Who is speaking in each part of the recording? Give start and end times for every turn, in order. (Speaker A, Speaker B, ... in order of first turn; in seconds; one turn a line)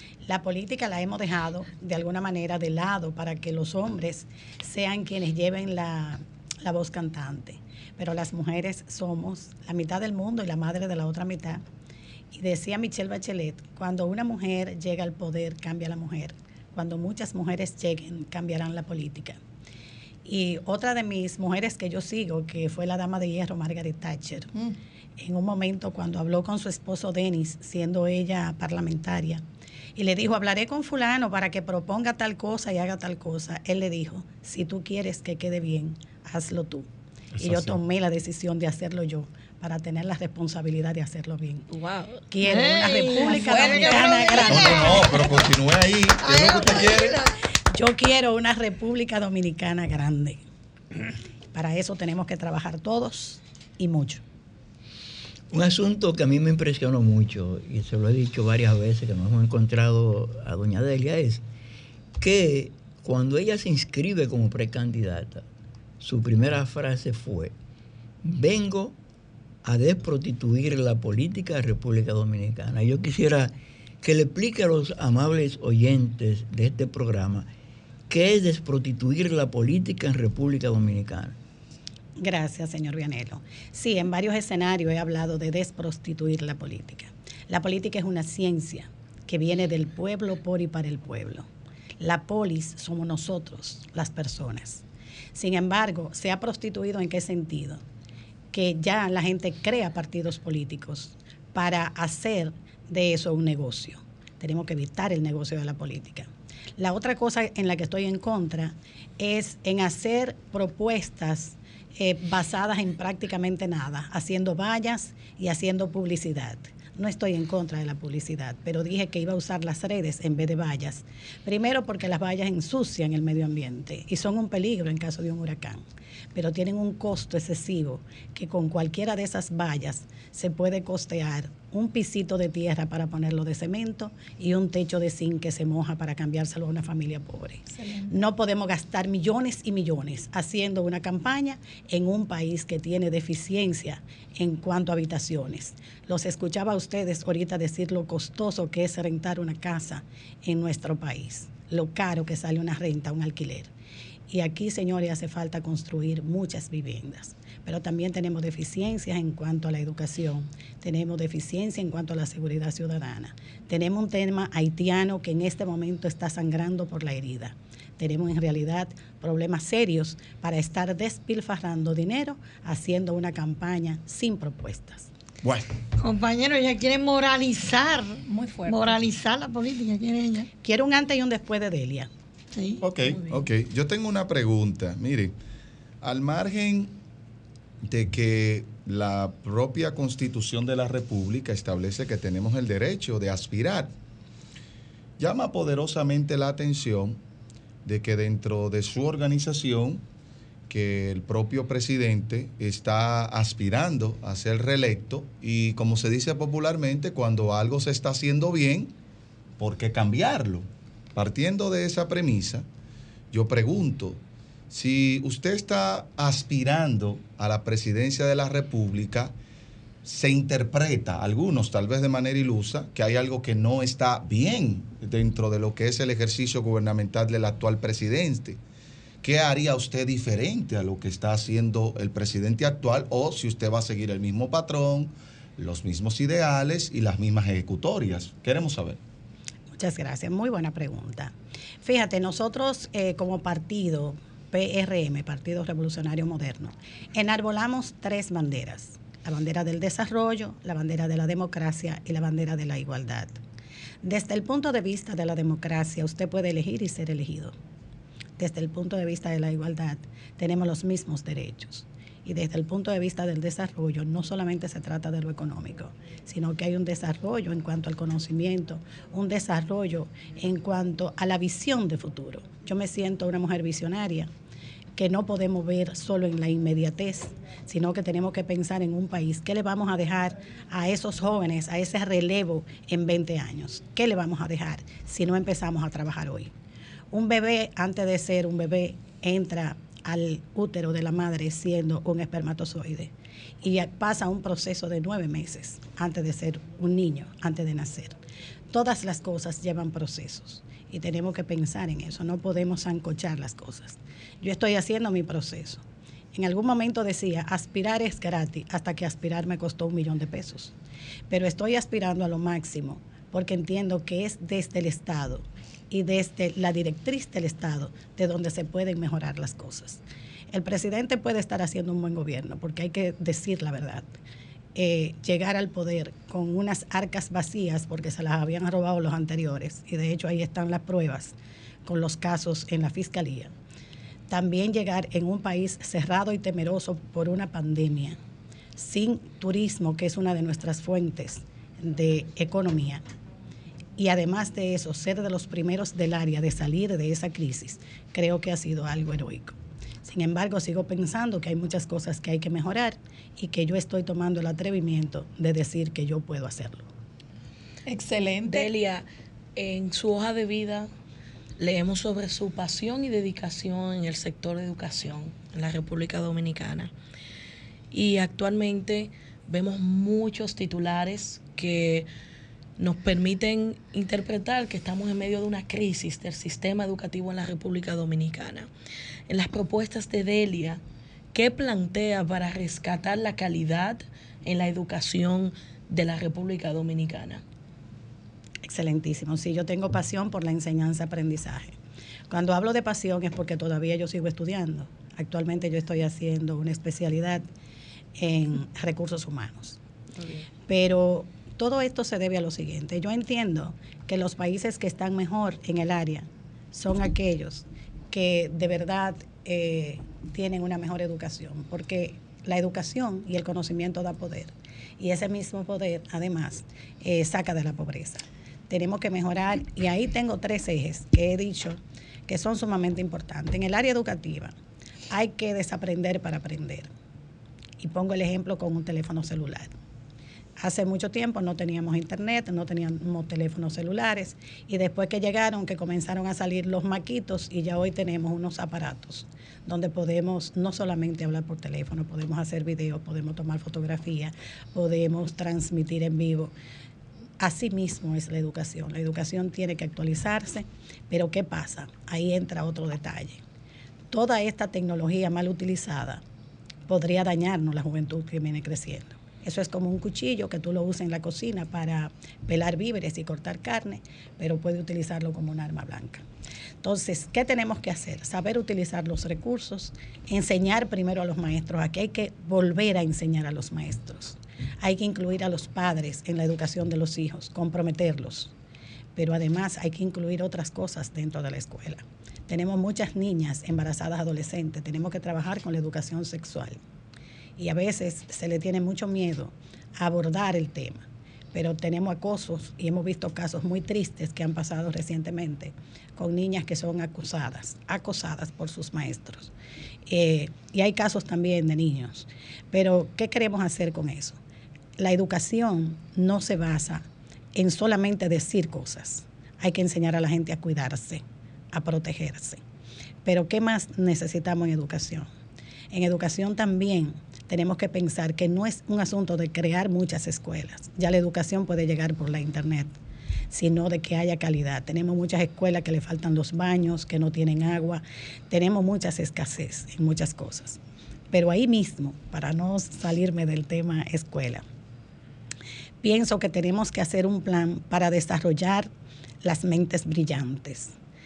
Speaker A: 0.3-11.6
Speaker A: 12.3-19.4
Speaker A: 20.2-24.5
Speaker A: 25.2-29.4
Speaker A: 30.0-36.9
Speaker B: 37.4-37.8
Speaker A: 37.4-41.7
Speaker C: 41.8-42.1
Speaker A: 42.3-45.0
Speaker D: 42.4-45.5
Speaker E: 43.1-45.1
Speaker B: 44.5-47.2
Speaker D: 46.2-47.4
Speaker A: 47.7-50.4
Speaker A: 51.5-54.2
Speaker F: 55.5-61.4
Speaker F: 62.2-65.5
Speaker F: 66.0-67.5
Speaker F: 68.2-69.0
Speaker F: 69.7-73.5
Speaker F: 74.0-77.5
Speaker F: 78.1-81.3
Speaker A: 82.2-91.5
Speaker A: 92.0-94.8
Speaker A: 95.3-97.8
Speaker A: 98.5-125.8
Speaker A: 126.3-153.7
Speaker E: 137.7-138.2
Speaker A: 154.3-175.1
Speaker B: 175.4-175.7
Speaker D: 176.0-180.5
Speaker E: 178.3-179.0
Speaker A: 180.6-182.1
Speaker D: 182.6-182.8
Speaker B: 182.8-185.3
Speaker C: 183.1-183.3
Speaker B: 186.0-187.0
Speaker B: 187.8-193.9
Speaker B: 195.2-197.2
Speaker B: 197.8-200.1
Speaker B: 200.7-208.9
Speaker B: 209.6-212.7
Speaker B: 213.3-219.3
Speaker B: 220.0-228.6
Speaker B: 229.2-239.0
Speaker A: 239.8-241.3
Speaker A: 241.8-253.4
Speaker A: 254.0-257.6
Speaker A: 258.4-274.3
Speaker A: 275.0-286.5
Speaker A: 287.1-298.1
Speaker A: 298.7-305.8
Speaker A: 306.3-310.7
Speaker A: 311.3-320.0
Speaker A: 320.5-324.1
Speaker A: 324.8-331.4
Speaker A: 331.9-333.5
Speaker A: 334.3-338.2
Speaker A: 338.8-343.0
Speaker A: 344.0-356.9
Speaker E: 357.9-358.7
Speaker C: 358.5-359.1
Speaker C: 359.6-360.9
Speaker C: 361.6-366.9
Speaker C: 367.9-372.1
Speaker C: 372.8-378.7
Speaker C: 379.3-380.8
Speaker C: 381.3-387.4
Speaker A: 388.7-391.8
Speaker A: 392.3-397.4
Speaker A: 398.2-399.8
Speaker C: 400.2-400.5
Speaker A: 400.7-424.6
Speaker A: 425.1-426.9
Speaker A: 427.8-429.8
Speaker A: 430.6-446.5
Speaker A: 447.4-453.4
Speaker A: 454.1-456.2
Speaker A: 456.9-466.2
Speaker A: 466.8-478.5
Speaker A: 479.2-486.8
Speaker A: 487.6-499.5
Speaker A: 500.1-504.4
Speaker A: 505.0-512.6
Speaker A: 513.2-515.3
Speaker A: 515.9-522.9
Speaker A: 523.5-530.8
Speaker A: 531.3-534.6
Speaker A: 536.0-538.9
Speaker A: 539.4-540.9